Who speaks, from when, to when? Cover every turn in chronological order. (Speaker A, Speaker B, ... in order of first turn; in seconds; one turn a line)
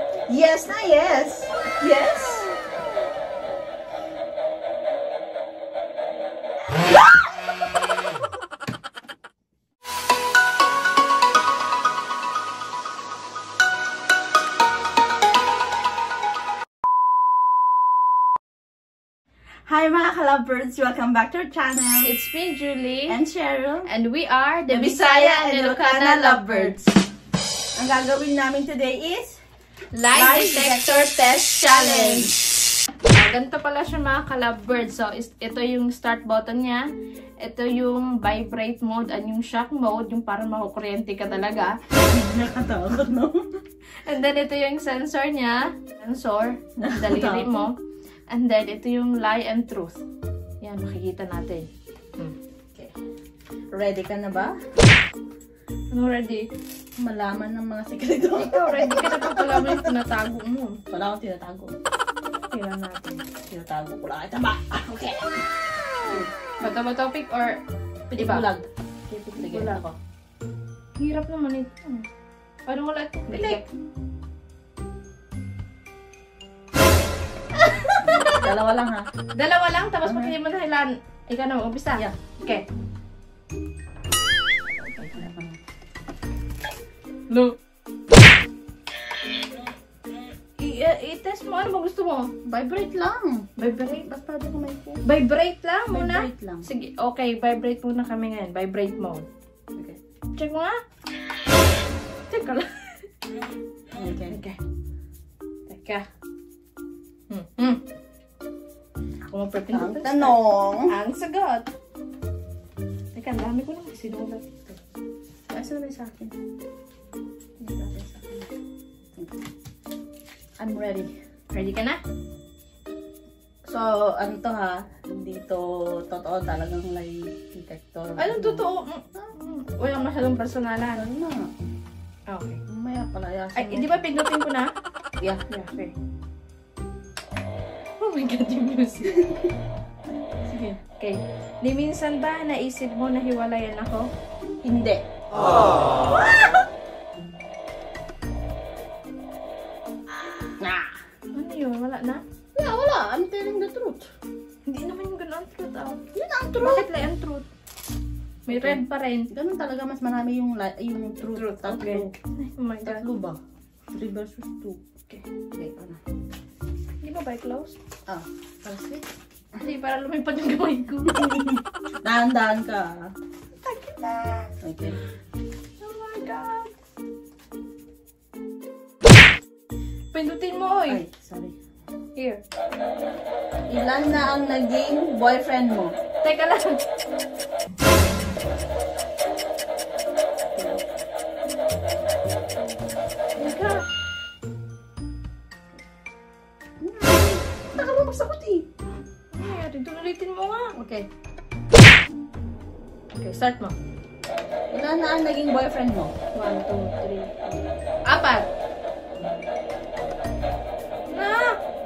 Speaker A: 0.3-2.5
Speaker A: 19.6-22.1
Speaker B: 22.0-23.2
Speaker A: 23.1-23.9
Speaker B: 23.9-26.8
Speaker A: 24.7-26.9
Speaker A: 27.7-29.4
Speaker B: 29.9-32.3
Speaker A: 30.1-32.5
Speaker B: 33.1-36.9
Speaker B: 37.4-41.8
Speaker A: 41.9-43.5
Speaker B: 44.0-47.8
Speaker A: 46.8-47.5
Speaker B: 48.3-50.0
Speaker B: 50.6-52.3
Speaker A: 53.7-54.5
Speaker B: 55.9-56.5
Speaker A: 57.0-59.9
Speaker B: 58.4-60.8
Speaker A: 60.9-61.7
Speaker B: 62.5-63.2
Speaker A: 63.5-65.4
Speaker B: 66.6-67.6
Speaker A: 68.1-68.7
Speaker B: 68.1-68.5
Speaker B: 69.1-69.8
Speaker A: 69.4-70.0
Speaker B: 71.0-72.1
Speaker B: 72.7-73.6
Speaker A: 73.3-73.7
Speaker B: 77.5-78.5
Speaker A: 78.0-79.1
Speaker B: 79.3-82.7
Speaker A: 80.0-80.3
Speaker B: 84.8-85.3
Speaker A: 85.1-85.6
Speaker B: 87.3-87.6
Speaker B: 90.6-92.3
Speaker A: 92.5-93.5
Speaker B: 93.6-94.1
Speaker A: 94.0-95.0
Speaker B: 95.0-99.3
Speaker A: 95.9-96.7
Speaker B: 100.3-100.8
Speaker B: 102.3-103.1
Speaker A: 103.9-104.4
Speaker B: 104.3-104.6
Speaker B: 105.7-106.1
Speaker B: 107.3-107.8
Speaker B: 109.3-111.7
Speaker A: 109.7-111.0
Speaker B: 113.1-114.8
Speaker A: 115.5-116.3
Speaker A: 117.6-118.5
Speaker A: 119.2-119.5
Speaker A: 120.6-121.1
Speaker B: 121.5-122.0
Speaker A: 123.7-129.3
Speaker B: 128.2-131.0
Speaker A: 130.9-131.5
Speaker B: 132.3-132.6
Speaker A: 132.7-133.9
Speaker B: 133.6-134.7
Speaker B: 135.5-135.9
Speaker B: 138.0-139.3
Speaker A: 140.4-140.8
Speaker B: 141.0-144.1
Speaker A: 144.6-145.0
Speaker B: 146.1-146.6
Speaker A: 150.6-151.0
Speaker B: 151.3-152.2
Speaker A: 152.5-154.1
Speaker B: 154.7-157.4
Speaker A: 156.1-157.1
Speaker A: 158.5-162.1
Speaker B: 158.5-159.3
Speaker B: 161.3-163.0
Speaker A: 162.8-164.8
Speaker A: 165.5-166.0
Speaker B: 167.0-167.8
Speaker A: 168.1-169.1
Speaker B: 169.6-171.4
Speaker A: 171.1-173.1
Speaker B: 173.6-174.5
Speaker A: 174.6-175.0
Speaker B: 175.8-176.7
Speaker B: 180.1-181.0
Speaker A: 180.9-181.6
Speaker B: 182.2-182.4
Speaker A: 183.7-186.0
Speaker B: 186.2-186.8
Speaker A: 190.5-190.8
Speaker B: 193.4-193.8
Speaker A: 196.8-198.7
Speaker B: 199.3-200.7
Speaker A: 200.7-201.1
Speaker B: 203.1-203.8
Speaker A: 204.7-206.1
Speaker B: 206.3-208.5
Speaker B: 211.1-211.6